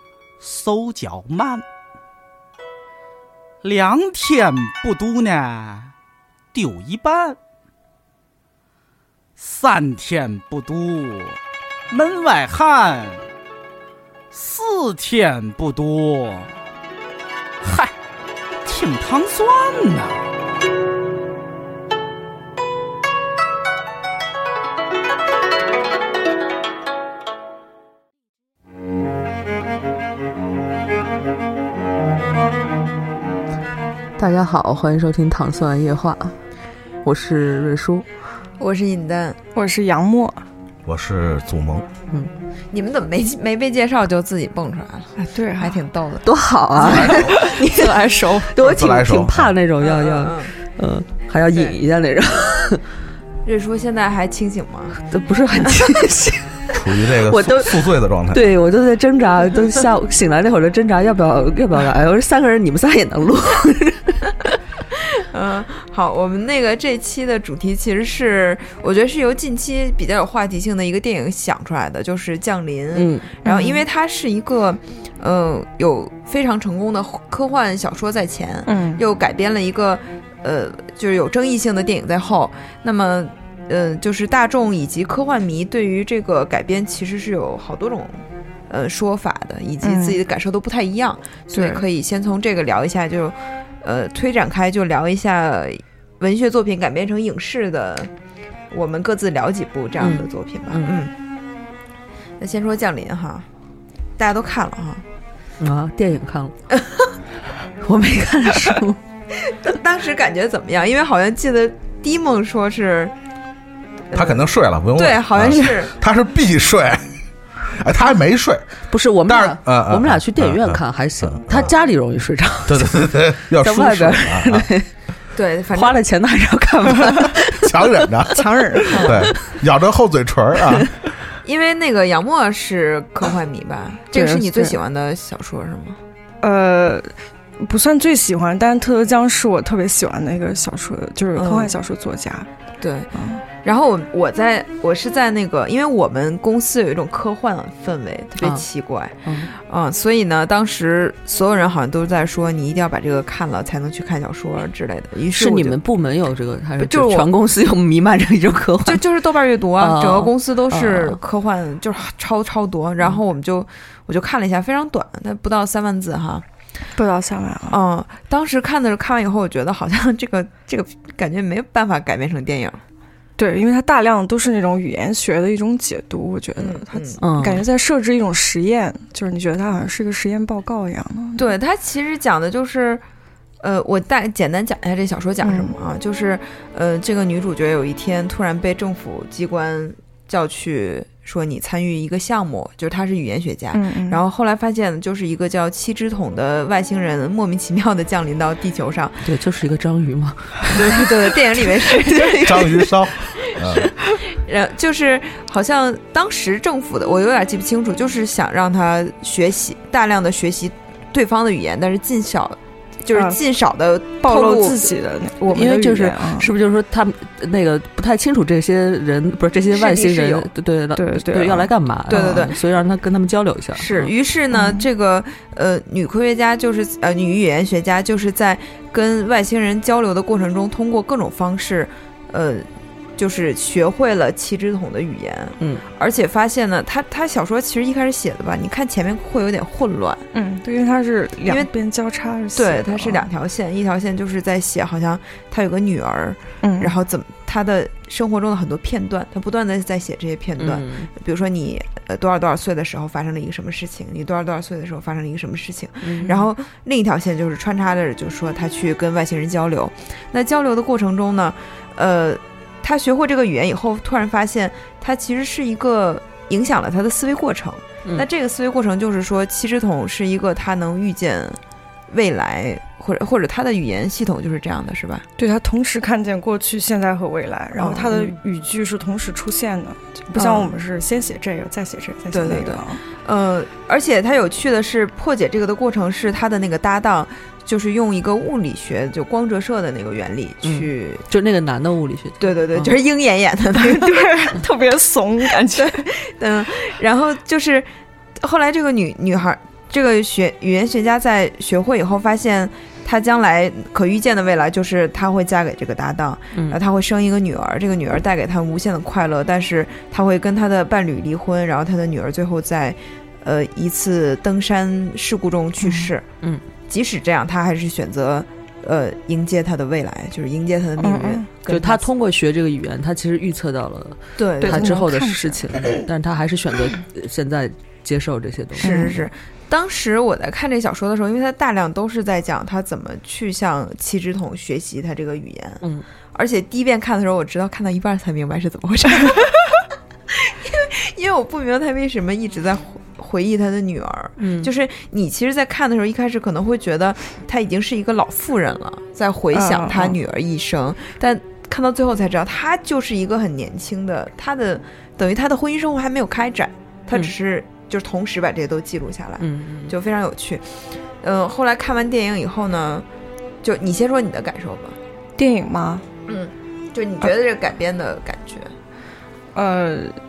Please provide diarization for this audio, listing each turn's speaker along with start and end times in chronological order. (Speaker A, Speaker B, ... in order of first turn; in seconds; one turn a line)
Speaker A: 0.4-1.6
Speaker A: 3.6-5.9
Speaker A: 6.5-7.4
Speaker A: 9.4-11.4
Speaker A: 11.9-13.2
Speaker A: 14.3-16.6
Speaker A: 17.6-17.9
Speaker A: 18.6-20.2
Speaker B: 34.2-36.4
Speaker B: 37.0-38.1
Speaker C: 38.6-39.4
Speaker D: 39.5-40.4
Speaker E: 40.9-41.9
Speaker C: 42.7-46.3
Speaker D: 45.2-45.8
Speaker B: 46.2-52.8
Speaker C: 46.8-47.3
Speaker D: 46.8-48.5
Speaker E: 48.6-49.5
Speaker C: 49.8-50.5
Speaker C: 51.5-51.8
Speaker C: 53.5-55.0
Speaker B: 55.1-64.5
Speaker E: 56.7-58.5
Speaker C: 65.0-98.1
Speaker B: 72.9-73.3
Speaker D: 73.5-73.8
Speaker D: 78.7-79.0
Speaker D: 89.8-90.2
Speaker D: 91.5-91.8
Speaker C: 98.7-101.1
Speaker B: 100.0-101.0
Speaker C: 102.4-103.5
Speaker C: 104.2-105.0
Speaker B: 105.6-106.5
Speaker B: 107.8-109.0
Speaker C: 109.5-113.1
Speaker C: 114.1-114.4
Speaker E: 114.1-117.1
Speaker C: 115.0-115.9
Speaker E: 117.7-121.7
Speaker B: 118.9-124.9
Speaker E: 122.7-124.7
Speaker C: 125.3-126.0
Speaker B: 125.7-128.1
Speaker E: 127.5-130.9
Speaker D: 128.3-129.0
Speaker C: 128.9-129.3
Speaker B: 129.0-129.5
Speaker C: 131.4-136.0
Speaker D: 134.1-134.8
Speaker D: 136.4-142.5
Speaker C: 141.3-141.7
Speaker C: 142.8-143.1
Speaker D: 143.1-143.4
Speaker C: 143.6-155.8
Speaker B: 149.2-149.5
Speaker B: 155.3-159.0
Speaker C: 156.8-157.3
Speaker C: 158.8-166.4
Speaker B: 159.8-161.2
Speaker D: 167.0-167.8
Speaker C: 167.7-172.8
Speaker D: 173.4-181.5
Speaker C: 176.6-177.2
Speaker B: 177.2-177.6
Speaker C: 181.4-183.0
Speaker C: 183.6-199.2
Speaker D: 185.4-185.7
Speaker D: 193.7-194.2
Speaker B: 199.2-202.9
Speaker C: 200.7-202.7
Speaker E: 202.4-203.9
Speaker C: 203.8-214.8
Speaker D: 214.2-216.5
Speaker B: 215.5-224.1
Speaker C: 219.7-220.5
Speaker D: 220.9-222.5
Speaker C: 222.1-222.6
Speaker C: 223.8-232.7
Speaker D: 224.5-224.9
Speaker C: 233.2-240.2
Speaker D: 240.3-243.3
Speaker C: 242.6-271.6
Speaker D: 246.6-246.9
Speaker B: 250.6-251.1
Speaker B: 256.0-256.5
Speaker C: 272.1-275.2
Speaker D: 275.4-283.0
Speaker C: 277.8-278.3
Speaker C: 280.4-280.7
Speaker C: 282.3-291.2
Speaker B: 290.6-293.0
Speaker C: 292.4-294.5
Speaker D: 293.8-296.1
Speaker C: 295.8-297.9
Speaker C: 298.4-316.2
Speaker B: 306.5-306.8
Speaker D: 315.8-316.1
Speaker C: 316.9-322.0
Speaker D: 321.0-321.5
Speaker B: 321.7-329.2
Speaker C: 324.4-324.9
Speaker D: 324.6-325.8
Speaker C: 328.8-335.8
Speaker D: 328.8-329.2
Speaker C: 336.4-360.7
Speaker B: 344.4-344.7
Speaker D: 349.5-350.2
Speaker B: 359.4-359.9
Speaker C: 361.2-363.1
Speaker C: 363.6-365.0
Speaker D: 365.4-366.0
Speaker C: 366.3-368.7
Speaker D: 369.6-370.2